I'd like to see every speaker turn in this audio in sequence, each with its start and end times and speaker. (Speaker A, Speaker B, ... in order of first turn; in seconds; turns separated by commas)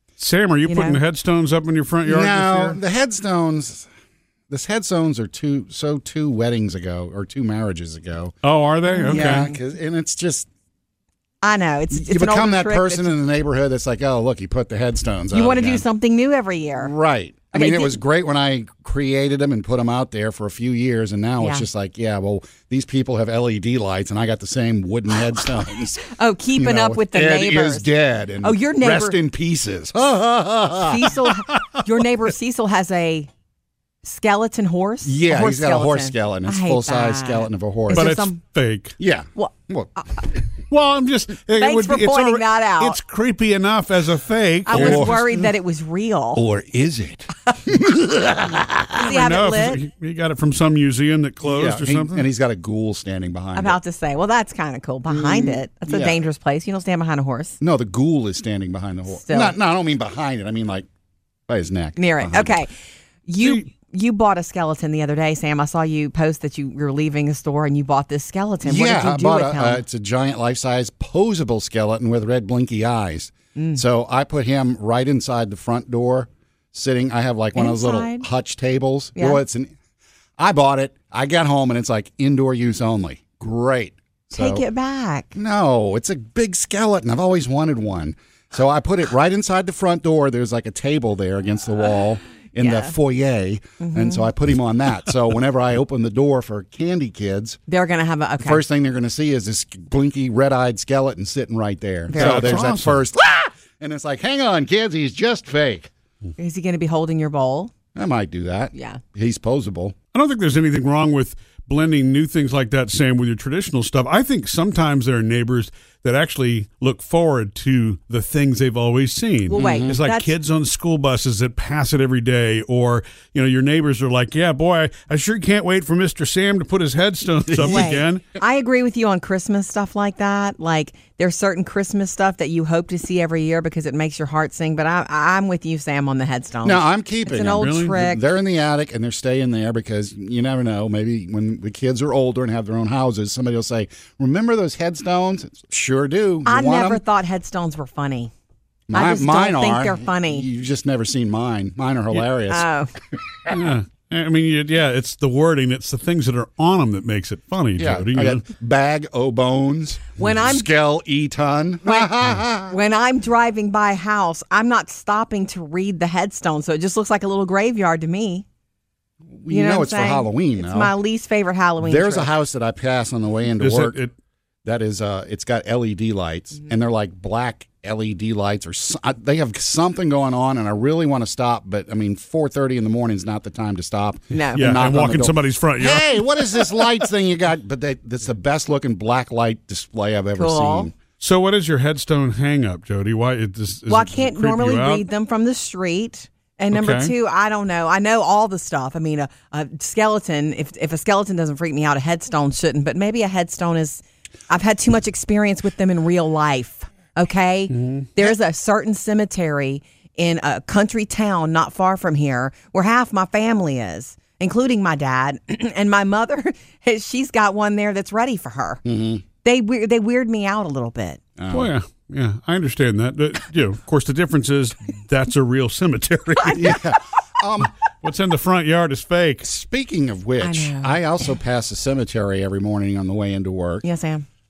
Speaker A: 0.2-2.8, Speaker B: 0.7-1.0, Speaker C: 2.0-3.9, Speaker C: 4.5-8.3, Speaker A: 8.4-9.5, Speaker B: 8.9-9.6, Speaker C: 9.1-10.5, Speaker B: 11.4-13.1, Speaker C: 11.9-15.8, Speaker B: 15.3-16.9, Speaker C: 16.8-26.0, Speaker B: 17.5-18.0, Speaker B: 21.4-21.6, Speaker B: 26.0-27.9, Speaker C: 26.6-31.2, Speaker B: 28.4-29.2, Speaker B: 30.9-33.3, Speaker B: 34.0-38.4, Speaker C: 35.0-38.1, Speaker A: 37.9-39.0, Speaker C: 39.0-39.9, Speaker A: 40.7-45.4, Speaker B: 41.5-43.0, Speaker B: 44.6-46.4, Speaker C: 44.7-45.2, Speaker C: 46.3-49.0, Speaker B: 48.9-49.8, Speaker A: 49.0-52.3, Speaker C: 51.4-53.8, Speaker B: 53.5-57.6, Speaker C: 55.1-56.2, Speaker C: 57.6-60.9, Speaker B: 59.1-59.6, Speaker C: 61.5-62.6, Speaker B: 62.0-62.7, Speaker B: 63.3-69.8, Speaker C: 68.6-79.7, Speaker B: 73.5-73.8, Speaker B: 77.5-78.2, Speaker C: 80.4-84.6, Speaker B: 84.3-85.3, Speaker C: 85.3-97.6, Speaker B: 92.6-92.9, Speaker B: 93.8-94.3, Speaker B: 97.7-98.6, Speaker C: 98.4-105.9, Speaker B: 102.1-102.7, Speaker A: 102.1-103.0, Speaker B: 106.4-107.7, Speaker C: 107.9-110.0, Speaker B: 108.7-109.0, Speaker A: 110.1-128.2, Speaker B: 119.5-120.3, Speaker C: 119.6-120.0, Speaker C: 127.5-128.0, Speaker B: 127.6-138.2, Speaker C: 136.6-147.0, Speaker A: 137.6-137.9, Speaker B: 146.4-148.3, Speaker C: 148.9-152.7, Speaker B: 148.9-150.5, Speaker B: 152.5-152.9, Speaker A: 153.5-158.4, Speaker C: 157.8-162.8, Speaker B: 160.2-160.7, Speaker B: 161.8-168.4, Speaker C: 169.3-170.9, Speaker B: 169.5-172.3, Speaker C: 171.8-174.0, Speaker A: 173.6-174.1, Speaker C: 174.6-190.9, Speaker B: 184.3-184.7, Speaker A: 184.5-186.9, Speaker B: 190.4-190.9, Speaker A: 191.2-195.0, Speaker B: 193.9-218.8, Speaker A: 196.7-197.1, Speaker A: 207.7-208.1, Speaker C: 218.8-219.2, Speaker B: 219.4-221.2, Speaker C: 221.4-221.7, Speaker A: 221.5-226.8, Speaker C: 226.5-227.7, Speaker A: 228.0-229.4, Speaker C: 229.4-233.8, Speaker B: 230.4-231.3, Speaker B: 233.8-234.2